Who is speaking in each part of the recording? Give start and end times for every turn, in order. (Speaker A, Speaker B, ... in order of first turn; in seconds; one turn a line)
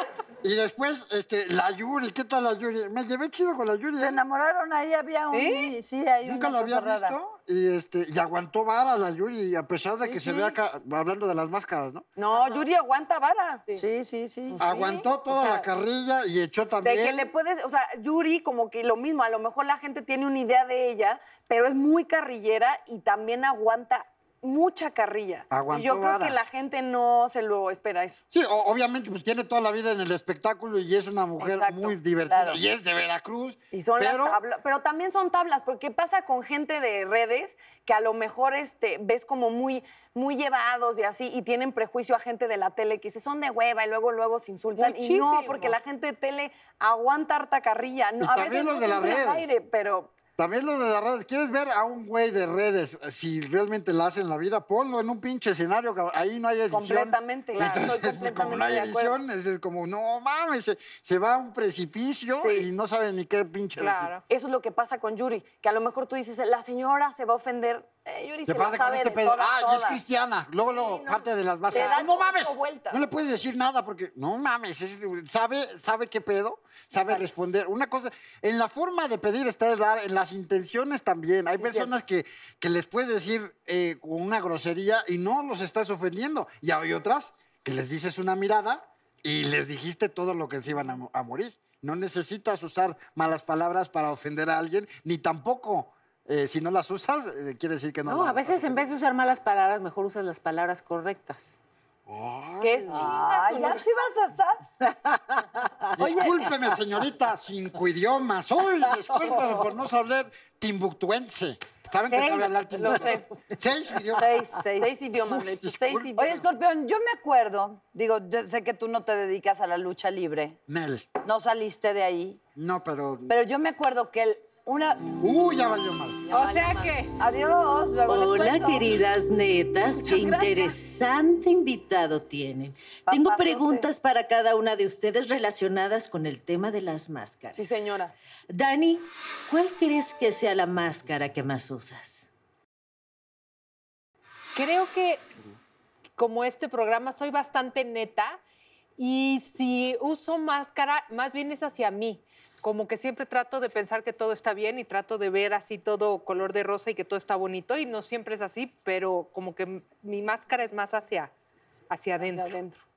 Speaker A: 0.4-4.2
Speaker B: 4.0-7.2
Speaker C: 5.3-5.7
Speaker A: 6.2-12.1
Speaker B: 10.2-10.5
Speaker C: 12.2-13.8
Speaker D: 12.3-12.6
Speaker B: 13.8-14.7
Speaker C: 14.5-15.7
Speaker A: 14.6-17.3
Speaker C: 16.8-28.2
Speaker A: 25.5-26.4
Speaker A: 28.3-34.4
Speaker C: 31.4-32.0
Speaker B: 32.3-32.6
Speaker C: 33.7-50.2
Speaker D: 44.8-45.8
Speaker A: 48.2-49.5
Speaker A: 50.4-64.1
Speaker C: 56.7-59.2
Speaker C: 62.4-62.7
Speaker D: 63.8-64.2
Speaker C: 64.3-70.0
Speaker A: 68.5-98.8
Speaker C: 70.7-73.0
Speaker D: 71.7-72.0
Speaker C: 81.6-81.9
Speaker E: 98.0-101.6
Speaker A: 102.1-103.1
Speaker C: 102.6-103.9
Speaker B: 102.9-104.6
Speaker E: 105.1-105.7
Speaker A: 106.0-114.4
Speaker B: 106.0-106.5
Speaker E: 112.1-113.2
Speaker C: 112.8-113.3
Speaker B: 114.2-114.9
Speaker C: 114.6-116.5
Speaker A: 115.3-116.1
Speaker B: 116.2-120.6
Speaker A: 120.7-121.1
Speaker B: 121.2-122.4
Speaker A: 122.6-123.4
Speaker B: 123.3-125.2
Speaker A: 125.2-126.2
Speaker B: 126.3-128.9
Speaker D: 126.3-127.1
Speaker F: 128.1-142.3
Speaker C: 130.0-130.8
Speaker B: 133.1-133.9
Speaker C: 137.5-138.2
Speaker D: 144.6-145.2
Speaker D: 146.2-148.4
Speaker D: 149.0-161.3
Speaker D: 161.9-162.6
Speaker C: 162.2-162.8